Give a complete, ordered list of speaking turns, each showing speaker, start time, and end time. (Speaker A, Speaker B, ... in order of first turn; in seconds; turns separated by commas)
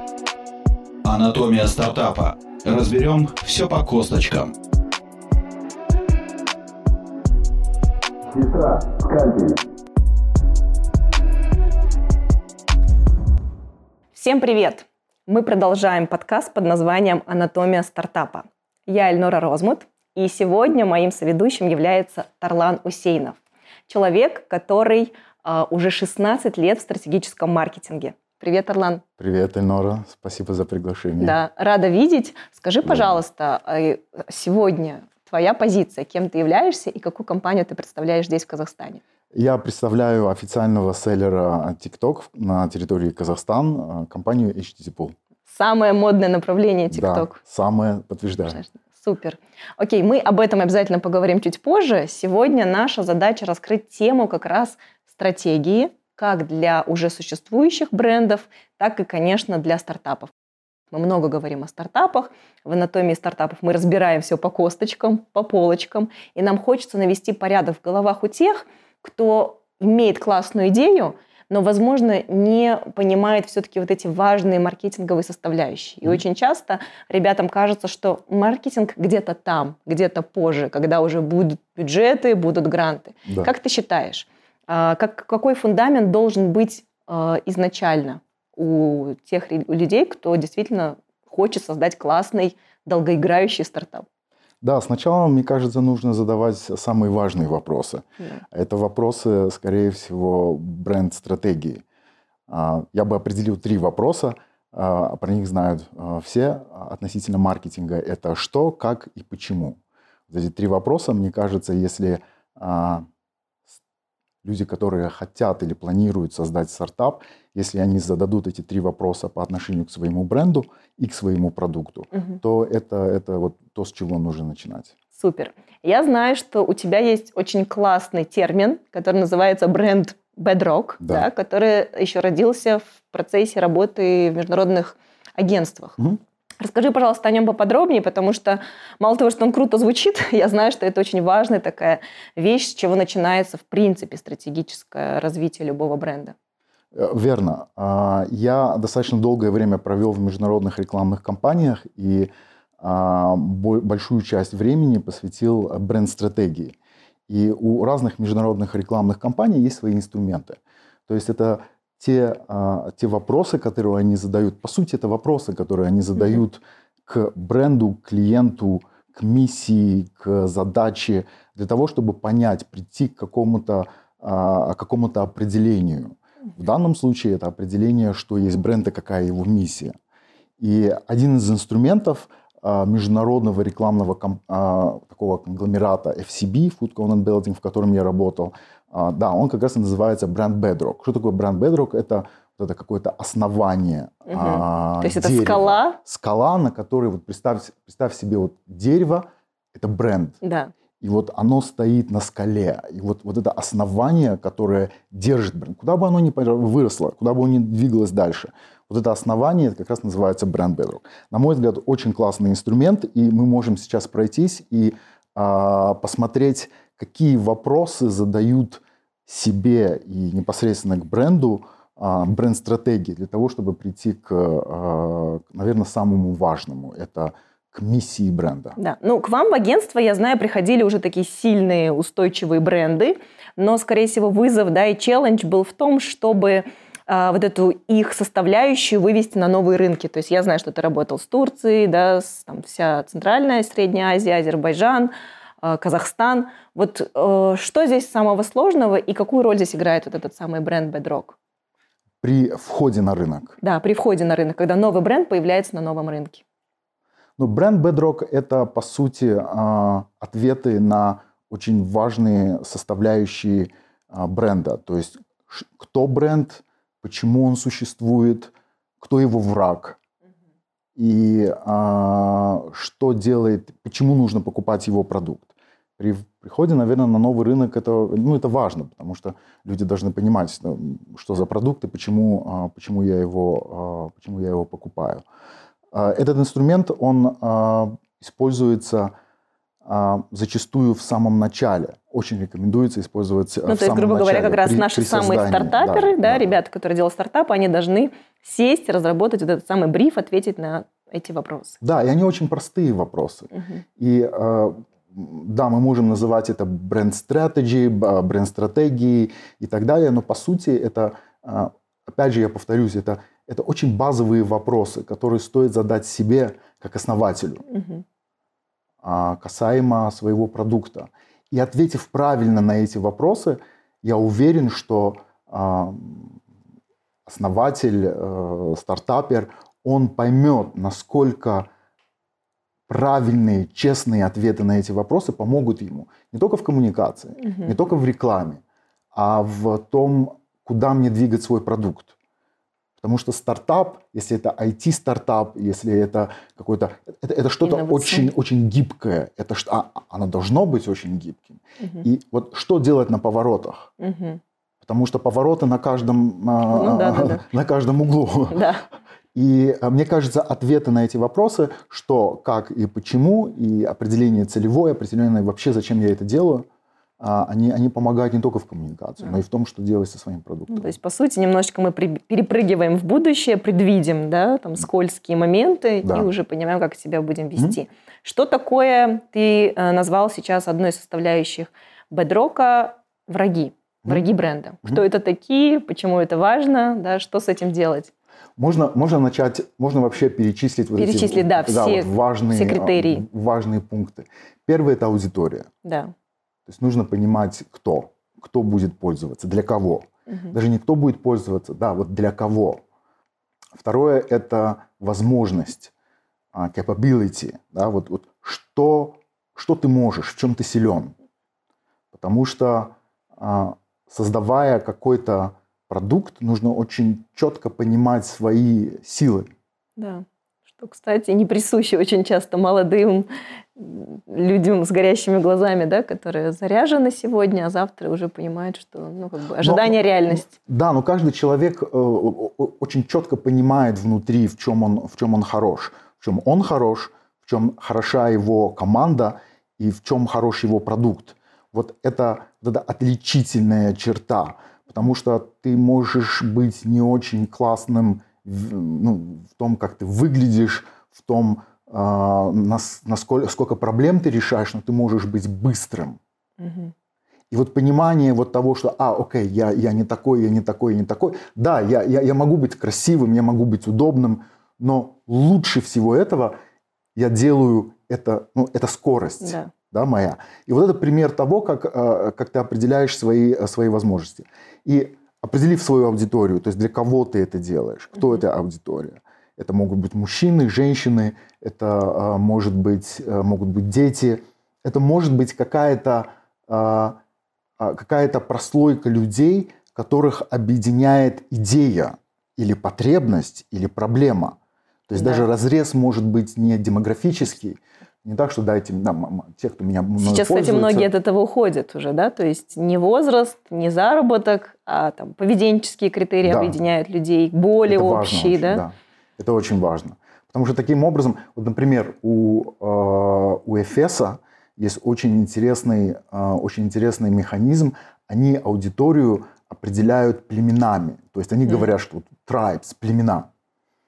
Speaker A: 1.0-4.5, Speaker A: 8.3-9.6, Speaker B: 14.1-29.0, Speaker C: 29.2-31.4, Speaker B: 31.2-39.0, Speaker C: 32.8-33.2, Speaker C: 39.3-45.2, Speaker B: 45.5-47.4, Speaker C: 46.9-48.6, Speaker B: 48.5-60.3, Speaker B: 60.9-94.1, Speaker C: 94.6-101.8, Speaker C: 102.5-113.1, Speaker C: 114.4-124.9, Speaker B: 125.1-136.0, Speaker C: 131.0-131.3, Speaker B: 136.6-146.3, Speaker C: 146.9-156.8, Speaker C: 157.3-179.9, Speaker C: 180.6-200.4, Speaker B: 194.3-196.0, Speaker B: 200.4-200.7, Speaker C: 201.0-228.8, Speaker B: 228.8-251.4, Speaker C: 252.2-253.6, Speaker B: 253.6-256.4, Speaker C: 257.4-270.0, Speaker C: 271.0-285.2, Speaker C: 285.9-289.1, Speaker C: 289.9-296.6, Speaker B: 293.7-301.8, Speaker C: 301.8-317.6, Speaker B: 303.5-303.8, Speaker B: 317.7-318.0, Speaker C: 319.0-326.4, Speaker C: 327.3-331.7, Speaker C: 332.9-338.6, Speaker B: 337.4-337.7, Speaker C: 339.1-342.1, Speaker C: 343.0-353.9, Speaker B: 347.6-348.3, Speaker B: 351.8-352.1, Speaker B: 354.0-354.4, Speaker C: 354.8-358.6, Speaker B: 356.7-357.4, Speaker B: 358.5-358.8, Speaker C: 359.4-366.7, Speaker C: 367.2-370.9, Speaker B: 370.7-388.1, Speaker C: 388.6-395.7, Speaker B: 391.0-393.2, Speaker B: 395.8-396.1, Speaker C: 396.7-402.8, Speaker B: 400.3-400.6, Speaker C: 403.8-405.9, Speaker C: 406.5-411.1, Speaker C: 412.1-419.5, Speaker B: 420.0-430.5, Speaker C: 429.6-456.2, Speaker B: 456.6-456.9, Speaker C: 457.5-466.6, Speaker C: 467.1-487.2, Speaker B: 469.4-469.7, Speaker C: 487.8-494.6, Speaker C: 495.1-501.1, Speaker B: 495.1-495.5, Speaker B: 500.2-508.8, Speaker C: 506.4-506.8, Speaker C: 507.9-523.5